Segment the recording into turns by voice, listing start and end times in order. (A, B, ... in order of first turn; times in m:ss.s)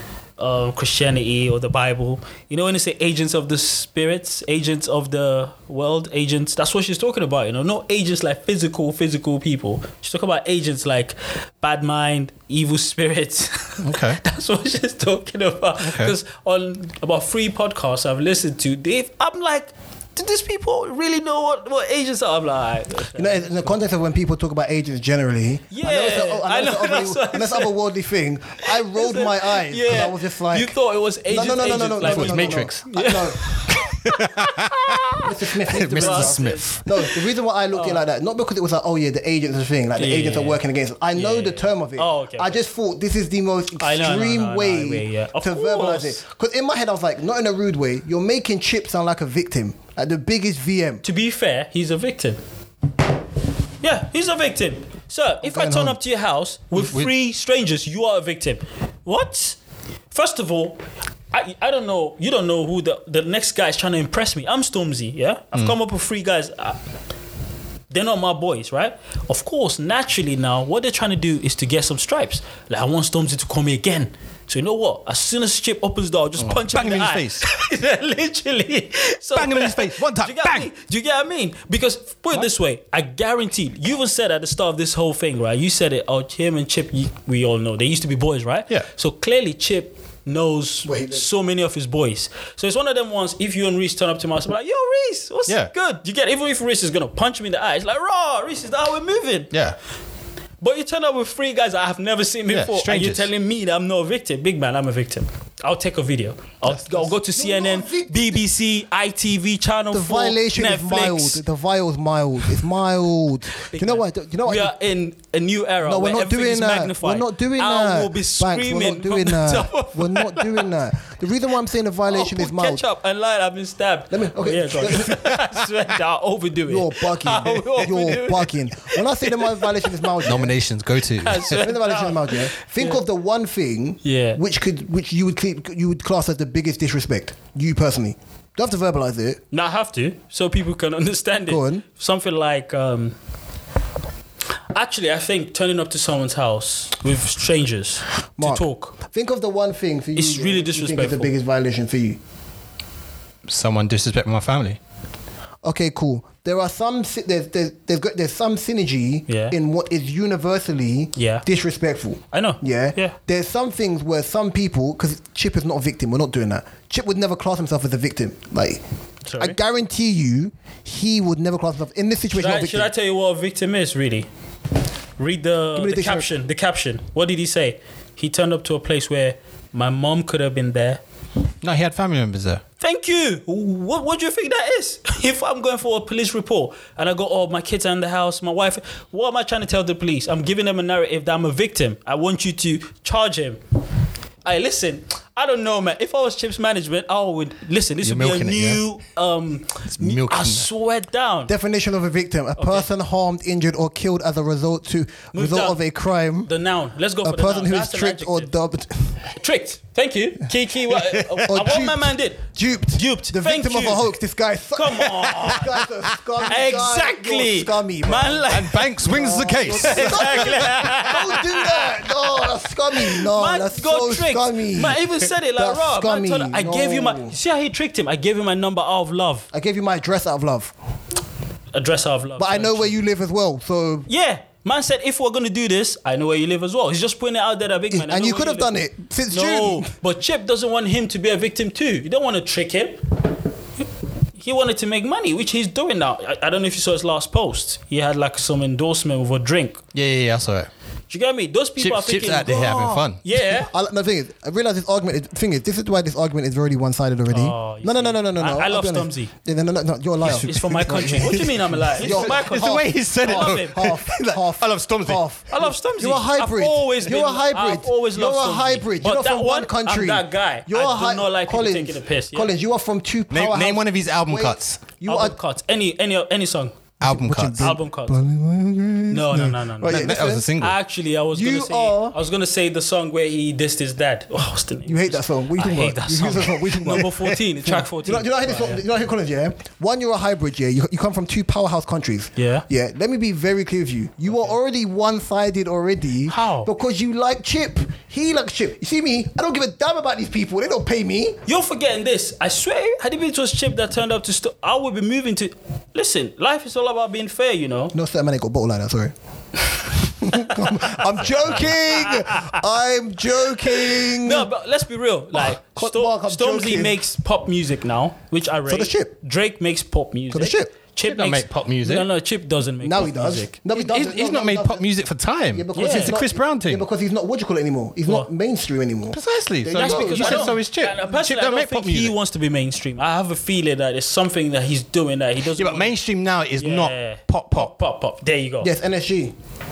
0:00.4-0:23.8 A
0:13.8-0:14.2 B
0:15.8-0:16.1 B
0:23.2-0:30.8 C
0:25.7-0:27.7 A
0:28.6-0:35.3 A
0:31.3-0:33.4 C
0:32.0-0:32.9 B
0:33.5-0:35.1 B
0:35.2-0:51.0 C
0:35.6-0:36.8 B
0:35.9-0:36.8 A
0:37.7-0:38.0 A
0:40.0-0:40.6 A
0:41.1-0:42.6 A
0:43.8-0:46.2 A
0:51.0-0:52.4 A
0:53.8-0:59.6 A
0:55.4-0:56.0 C
0:56.8-0:57.1 B
1:00.1-1:06.8 A
1:07.9-1:39.5 A
1:16.4-1:17.4 B
1:19.3-1:20.7 B
1:30.8-1:31.3 C
1:39.5-1:39.8 B
1:40.6-1:51.4 A
1:42.5-1:43.3 B
1:46.7-1:48.4 C
1:49.9-1:54.7 C
1:53.6-2:00.7 A
1:55.8-2:02.8 C
2:02.1-2:10.2 A
2:04.1-2:05.4 C
2:06.7-2:10.6 C
2:10.2-2:11.7 B
2:11.2-2:13.0 A
2:11.5-2:19.4 C
2:14.0-2:14.4 A
2:19.5-2:23.2 A
2:21.5-2:21.8 C
2:24.7-2:29.0 A
2:28.4-2:32.2 C
2:30.2-2:31.3 A
2:33.5-2:34.8 B
2:35.6-2:48.8 C
2:39.3-2:39.6 A
2:41.2-2:41.5 A
2:42.3-2:43.2 A
2:49.3-2:49.6 A
2:49.4-2:52.9 C
2:52.3-2:54.3 A
2:55.2-3:01.0 A
2:55.8-2:56.3 C
3:01.6-3:02.6 B
3:02.8-3:13.6 A
3:14.4-3:21.5 A
3:18.0-3:18.8 B
3:19.9-3:20.7 B
3:21.5-3:26.5 C
3:22.6-3:22.9 A
3:25.3-3:25.8 A
3:26.5-3:28.5 A
3:27.2-3:29.3 C
3:29.3-3:34.1 A
3:31.4-3:47.4 C
3:34.7-3:35.7 A
3:36.4-3:39.0 A
3:38.5-3:41.1 B
3:39.7-3:49.5 A
3:49.5-3:50.7 C
3:51.7-3:53.0 A
3:52.4-3:54.1 C
3:54.1-3:58.7 A
3:57.9-3:59.9 C
3:59.3-4:03.0 A
4:04.4-4:09.8 A
4:09.9-4:10.7 B
4:11.1-4:13.7 A
4:11.8-4:13.2 B
4:13.6-4:35.4 C
4:17.3-4:19.3 A
4:20.2-4:23.8 A
4:20.4-4:25.2 B
4:25.5-4:32.5 A
4:33.3-4:34.8 B
4:35.0-4:36.8 A
4:37.0-4:37.8 B
4:37.0-4:40.5 C
4:37.6-4:38.2 A
4:39.1-4:48.8 A
4:39.8-4:40.8 B
4:41.3-4:42.2 C
4:44.8-5:01.4 C
4:52.4-4:52.6 A
4:56.3-4:56.7 A
5:01.5-5:07.9 A
5:07.9-5:09.1 C
5:09.9-5:14.5 C
5:11.9-5:12.6 A
5:13.7-5:23.6 A
5:15.4-5:17.0 C
5:18.7-5:19.2 C
5:20.3-5:20.7 C
5:21.0-5:22.1 B
5:22.8-5:24.8 C
5:23.7-5:26.8 B
5:25.5-5:30.5 C
5:25.7-5:26.2 A
5:29.1-5:32.2 B
5:29.8-5:36.0 A
5:35.6-5:37.7 B
5:36.6-5:38.7 A
5:38.6-5:39.3 C